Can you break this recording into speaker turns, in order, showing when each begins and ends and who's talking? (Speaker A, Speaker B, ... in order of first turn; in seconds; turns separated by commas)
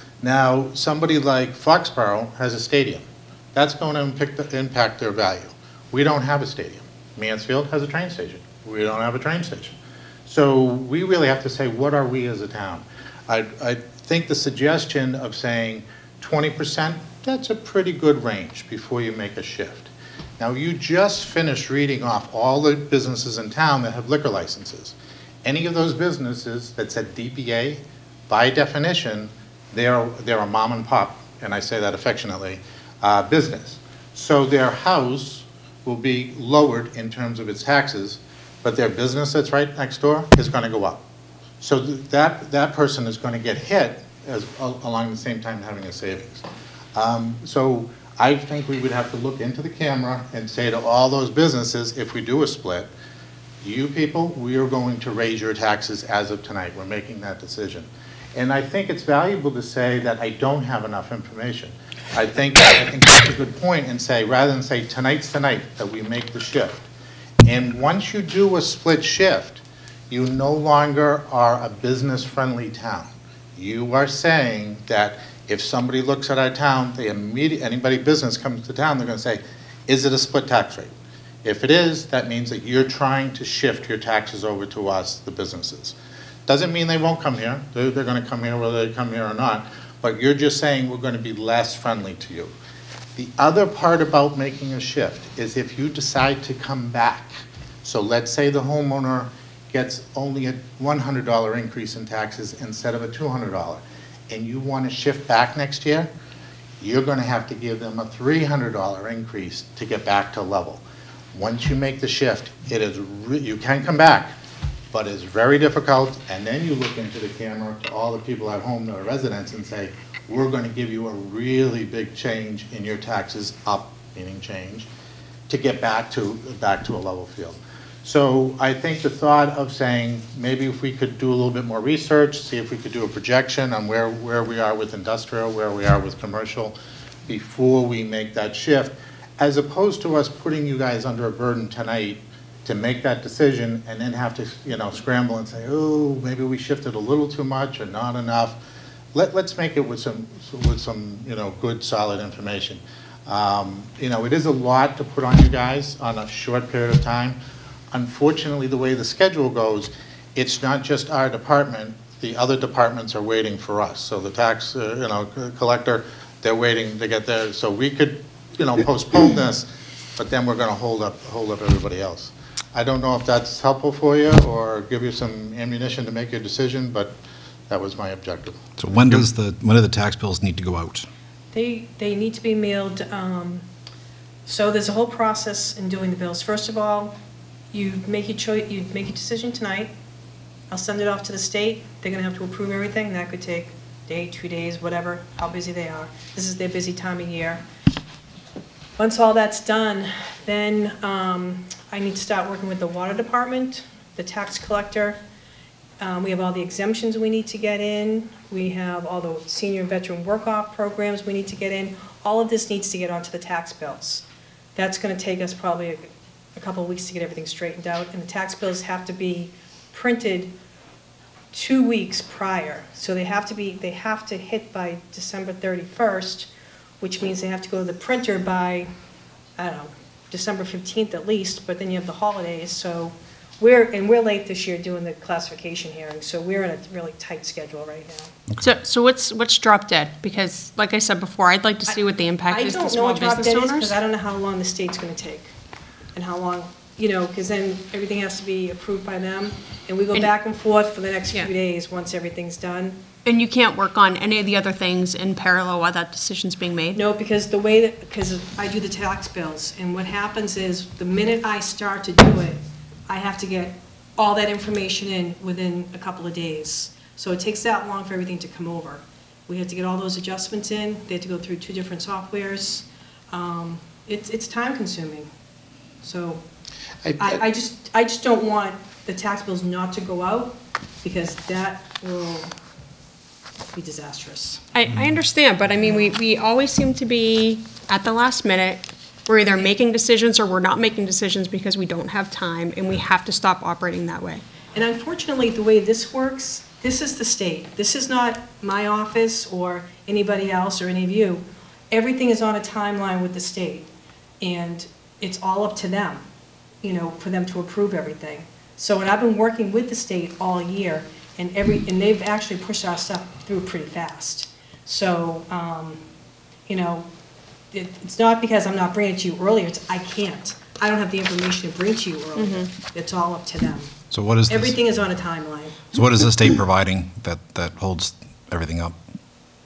Speaker A: 0.2-41.0, Speaker A: 41.6-46.4, Speaker A: 47.0-52.9, Speaker A: 53.6-66.8, Speaker A: 67.4-92.6, Speaker A: 93.2-106.1, Speaker A: 106.8-114.3, Speaker A: 114.9-124.9, Speaker A: 125.5-148.6, Speaker A: 149.1-157.4, Speaker A: 157.9-177.2, Speaker A: 177.7-179.2, Speaker B: 178.8-181.1, Speaker C: 181.5-183.7, Speaker C: 184.5-187.2, Speaker C: 187.7-189.9, Speaker C: 190.7-197.6, Speaker C: 199.0-205.2, Speaker C: 206.0-220.6, Speaker C: 221.5-228.9, Speaker C: 229.6-238.3, Speaker D: 238.6-244.0, Speaker C: 242.5-245.5, Speaker C: 246.1-253.0, Speaker D: 253.2-257.0, Speaker C: 256.9-275.3, Speaker C: 276.0-276.4, Speaker A: 277.1-277.4, Speaker C: 277.2-282.5, Speaker C: 283.7-284.6, Speaker D: 284.7-294.4, Speaker C: 294.7-303.9, Speaker C: 304.4-306.2, Speaker C: 306.8-316.0, Speaker C: 316.7-317.1, Speaker C: 317.7-323.9, Speaker D: 322.4-322.7, Speaker B: 324.1-324.8, Speaker C: 324.5-325.8, Speaker B: 325.9-329.0